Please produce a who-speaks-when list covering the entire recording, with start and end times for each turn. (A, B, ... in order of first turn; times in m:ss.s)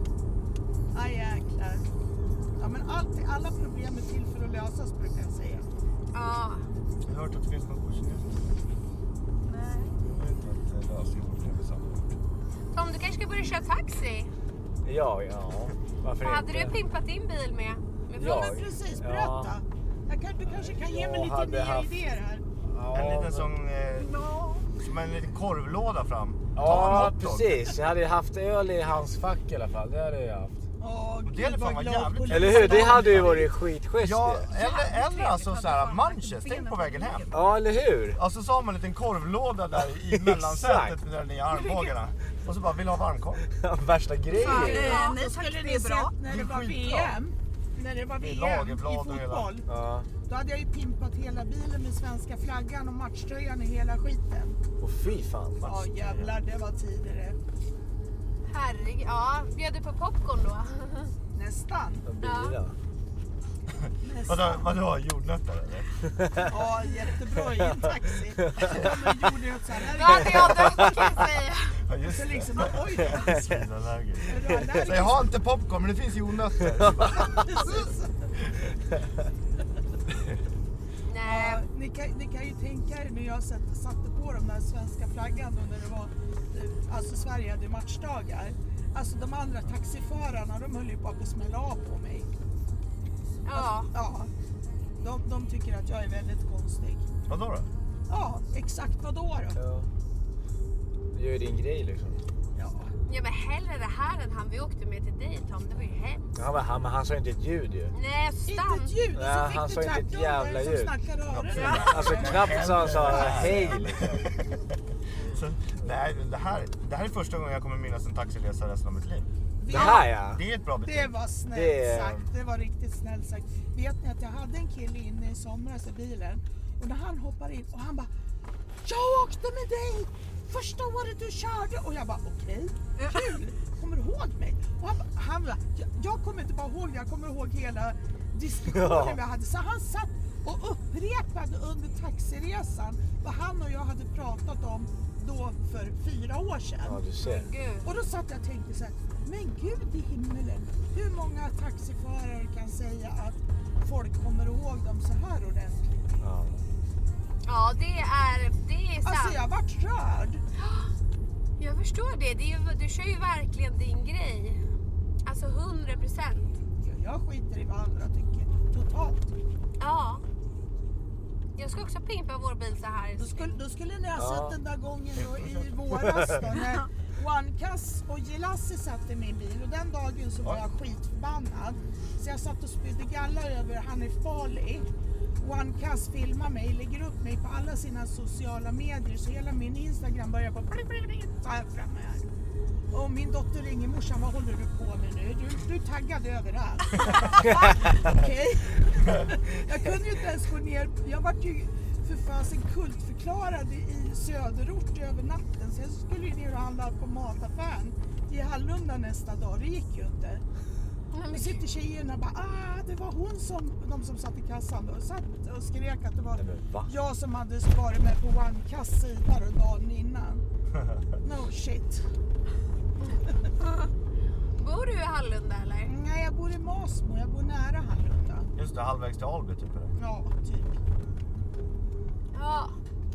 0:00.9-0:01.9 A
0:02.6-0:05.7 A
0:06.1-0:06.6 B
0:07.0-0:08.6 C
0:09.5-0:10.0 D
0:09.9-0:12.1 C
0:12.7-0:14.3 B
0:14.8-0:16.8 E
0:16.2-0:18.6 B
0:18.2-0:19.5 E
0:18.4-0:22.4 A
0:20.4-0:22.0 E
0:22.6-0:23.5 E
0:22.9-0:24.2 C
0:24.0-0:24.7 D
0:24.8-0:27.7 C
0:26.6-0:30.6 E
0:30.8-0:33.5 A
0:31.2-0:33.4 C
0:32.3-0:34.5 E
0:34.0-0:37.4 C
0:34.5-0:37.4 D
0:37.3-0:38.2 E
0:38.1-0:43.4 C
0:40.1-0:41.0 E
0:43.5-0:45.0 E
0:44.3-0:49.7 A
0:44.4-0:46.1 D
0:46.3-0:47.2 C
0:48.2-0:49.5 C
0:49.7-0:50.1 E
0:50.3-0:54.6 A
0:54.8-0:55.8 E
0:55.6-0:57.4 A
0:55.6-0:56.4 C
0:58.5-1:01.1 B
1:01.3-1:02.1 A
1:02.0-1:02.8 E
1:02.2-1:02.6 B
1:03.9-1:06.1 C
1:04.0-1:04.7 A
1:06.4-1:10.9 A
1:09.9-1:11.8 B
1:10.6-1:11.0 C
1:11.8-1:17.9 C
1:12.0-1:13.5 A
1:14.2-1:15.2 A
1:17.1-1:18.1 A
1:21.1-1:21.7 B
1:21.2-1:32.3 A
1:33.5-1:33.9 B
1:33.5-1:34.3 A
1:35.0-1:37.1 A
1:37.3-1:37.7 C
1:38.1-1:39.6 A
1:39.6-1:39.9 E
1:41.1-1:42.2 E
1:42.6-1:42.9 A
1:43.1-1:46.3 B
1:46.4-1:47.9 E
1:47.9-1:49.0 B
1:48.5-1:53.6 A
1:49.1-1:51.0 E
1:51.3-2:01.2 C
1:51.6-1:52.3 D
1:51.8-1:54.2 E
1:59.6-2:00.2 A
1:59.7-2:00.4 E
2:00.8-2:08.1 A
2:01.5-2:02.3 E
2:08.8-2:27.0 A
2:18.7-2:19.2 E
2:26.8-2:27.5 E
2:27.2-2:27.9 B
2:27.8-2:36.0 A
2:36.2-2:36.7 E
2:37.4-2:39.4 B
2:39.0-2:40.4 A
2:40.6-2:40.9 B
2:41.6-2:44.6 B
2:45.2-2:46.5 B
2:46.8-2:49.3 A
2:49.8-2:50.2 B
2:51.6-2:53.6 B
2:53.2-3:04.9 A
2:54.2-2:54.6 E
3:05.4-3:12.3 A
3:12.9-3:30.4 A
3:31.1-3:31.6 B
3:31.3-3:40.4 A
3:36.4-3:36.9 E
3:41.2-3:42.0 A
3:44.6-3:45.9 B
3:45.8-3:48.5 A
3:48.6-3:50.0 C
3:50.0-3:50.8 A
3:52.3-3:52.8 B